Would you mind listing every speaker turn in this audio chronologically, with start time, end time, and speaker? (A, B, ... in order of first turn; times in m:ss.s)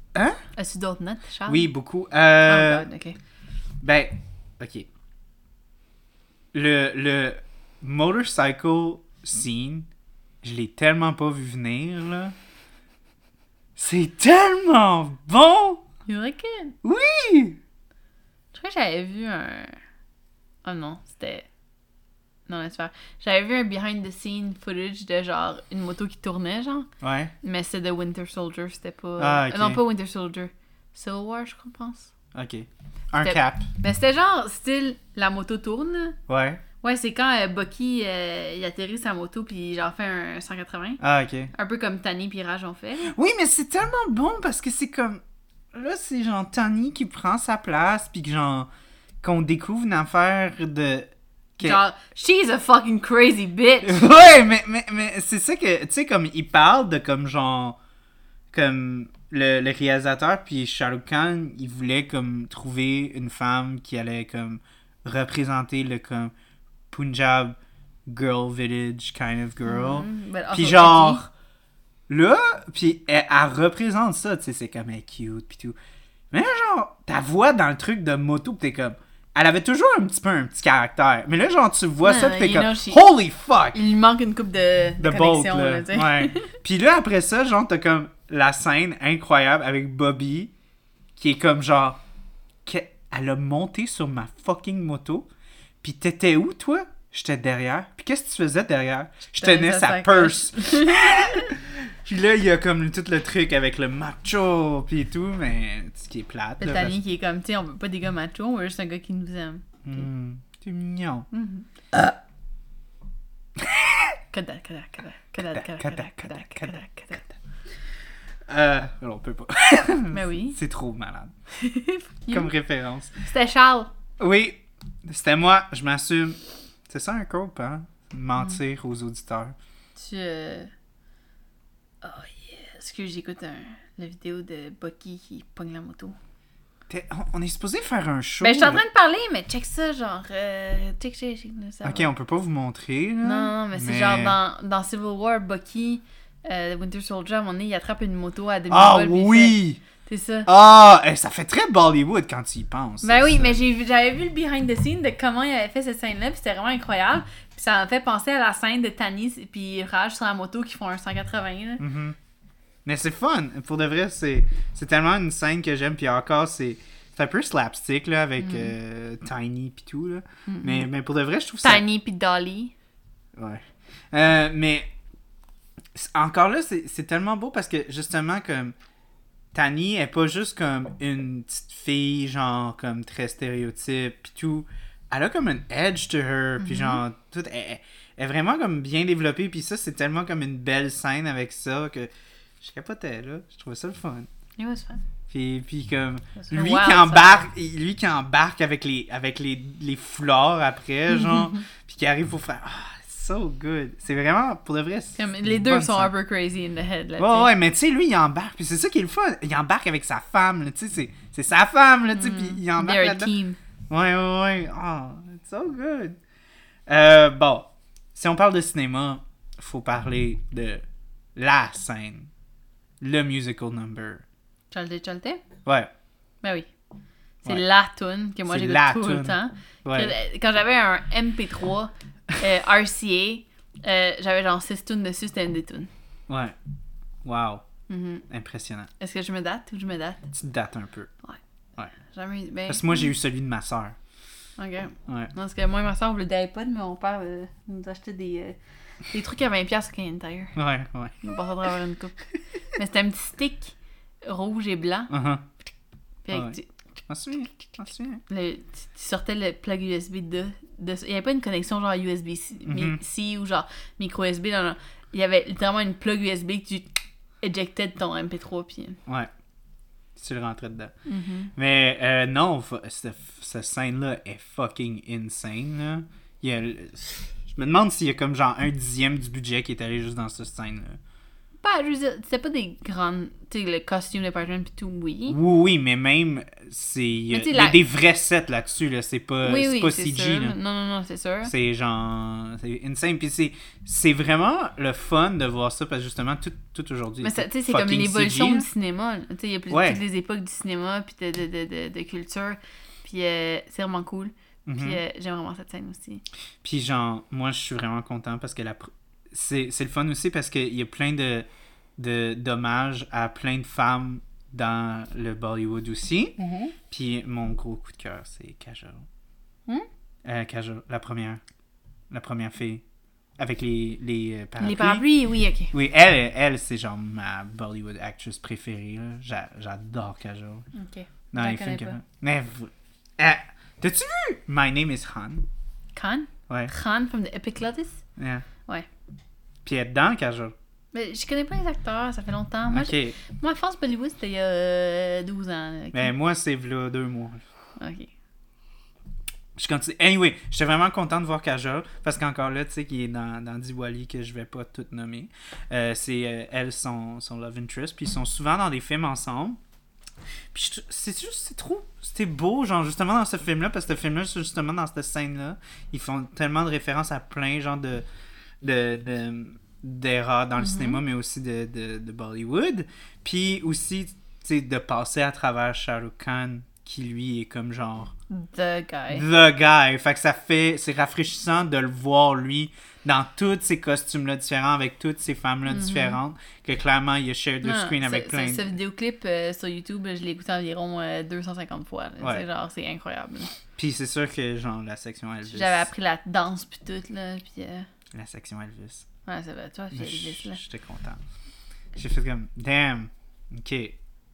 0:00.1-0:00.4 A
0:00.6-0:01.7 B
0:01.5-0:02.9 A
0:02.4-0:03.2 B
0:03.8-0:04.9 A
0:06.5-0:09.9 A
0:10.4-0:12.4 A
0:13.8-0:15.8 A
0:16.1-0:16.8 B
0:16.8-0:17.6 A
0:18.5-0:19.8 B
0:20.6-0:21.5 B
0:22.5-0:26.9 B
0:27.0-0:27.3 A
0:27.4-0:32.1 B
0:29.2-0:29.8 A
0:32.3-0:33.7 A
0:33.2-0:36.2 B
0:36.3-0:36.6 A
0:36.8-0:41.0 B
0:41.0-0:41.5 A
0:41.5-0:43.2 B
0:43.1-0:45.2 A
0:45.7-0:48.7 A
0:49.2-0:51.8 A
0:51.6-0:54.0 B
0:53.8-0:57.8 A
0:58.5-1:06.3 A
1:06.9-1:11.3 A
1:09.6-1:11.2 B
1:12.1-1:15.8 A
1:16.3-1:23.8 A
1:22.0-1:23.1 B
1:23.7-1:26.5 B
1:25.0-1:30.5 A
1:31.2-1:32.0 A
1:32.6-1:35.3 A
1:35.8-1:47.0 A
1:39.4-1:41.5 B
1:46.6-1:50.0 B
1:49.8-1:51.3 A
1:51.3-1:51.7 B
1:53.6-1:54.2 A
1:54.3-1:57.2 B
1:55.4-1:57.4 A
1:58.5-2:01.3 A
2:00.1-2:00.6 B
2:01.5-2:02.5 B
2:02.3-2:03.1 A
2:03.2-2:03.9 B
2:04.2-2:09.6 A
2:10.0-2:10.7 B
2:12.0-2:16.2 B
2:16.9-2:18.8 A
2:18.4-2:22.1 B
2:21.8-2:24.4 A
2:23.2-2:30.5 B
2:28.7-2:29.8 A
2:30.5-2:33.6 A
2:33.0-2:41.8 B
2:41.8-2:42.2 A
2:42.8-2:51.8 A
2:48.4-2:48.7 B
2:50.5-2:50.9 B
2:51.6-2:52.7 B
2:53.4-2:54.9 A
2:55.9-2:58.8 A
2:59.5-3:14.3 A
3:06.6-3:07.0 B
3:14.6-3:15.0 B
3:15.3-3:26.1 A
3:16.4-3:17.5 B
3:21.2-3:21.6 B
3:25.2-3:27.5 B
3:27.2-3:33.3 A
3:32.2-3:33.6 B
3:33.9-3:36.2 A
3:36.9-3:40.8 A
3:41.4-3:42.3 A
3:43.0-3:44.2 A
3:44.7-3:45.4 B
3:45.6-3:45.9 A
3:46.4-3:46.7 B
3:47.4-3:55.9 B
3:48.5-3:50.2 A
3:56.3-3:56.6 A
3:57.2-3:57.6 A
3:57.9-3:58.2 B
3:58.3-3:58.9 A
3:59.0-4:00.3 B
4:00.3-4:01.1 A
4:02.0-4:03.1 B
4:02.7-4:04.0 A
4:04.6-4:10.6 B
4:05.1-4:05.3 A
4:10.6-4:11.2 A
4:11.2-4:15.1 B
4:15.1-4:15.4 A
4:16.3-4:16.7 B
4:16.3-4:18.2 A
4:18.3-4:26.9 B
4:22.7-4:23.0 A
4:27.4-4:29.0 B
4:30.2-4:30.9 A
4:31.1-4:31.5 B
4:31.6-4:41.0 A
4:41.6-4:45.4 B
4:45.3-4:50.6 A
4:47.3-4:47.8 B
4:49.4-4:51.5 B
4:51.4-4:58.7 A
4:57.2-5:06.2 B
4:59.7-5:00.0 A
5:04.7-5:05.0 A
5:06.6-5:19.1 A
5:16.4-5:16.7 B
5:20.2-5:21.4 A
5:22.1-5:22.8 A
5:23.4-5:25.1 A
5:24.6-5:25.7 B
5:25.7-5:30.7 A
5:30.7-5:32.0 B
5:31.3-5:35.5 A
5:36.0-5:38.0 B
5:38.2-5:38.4 A
5:39.6-5:40.6 A
5:40.9-5:46.1 B
5:42.7-5:43.2 A
5:45.9-5:47.4 A
5:47.8-5:48.1 B
5:49.6-5:59.6 A
6:00.5-6:08.0 A
6:08.6-6:18.1 A
6:10.6-6:11.0 B
6:18.3-6:19.2 B
6:19.1-6:28.7 A
6:25.7-6:26.2 B
6:27.6-6:33.5 B
6:33.8-6:35.9 A
6:35.5-6:37.9 B
6:38.1-6:39.1 A
6:39.3-6:40.6 B
6:39.9-6:41.2 A
6:42.0-6:44.0 A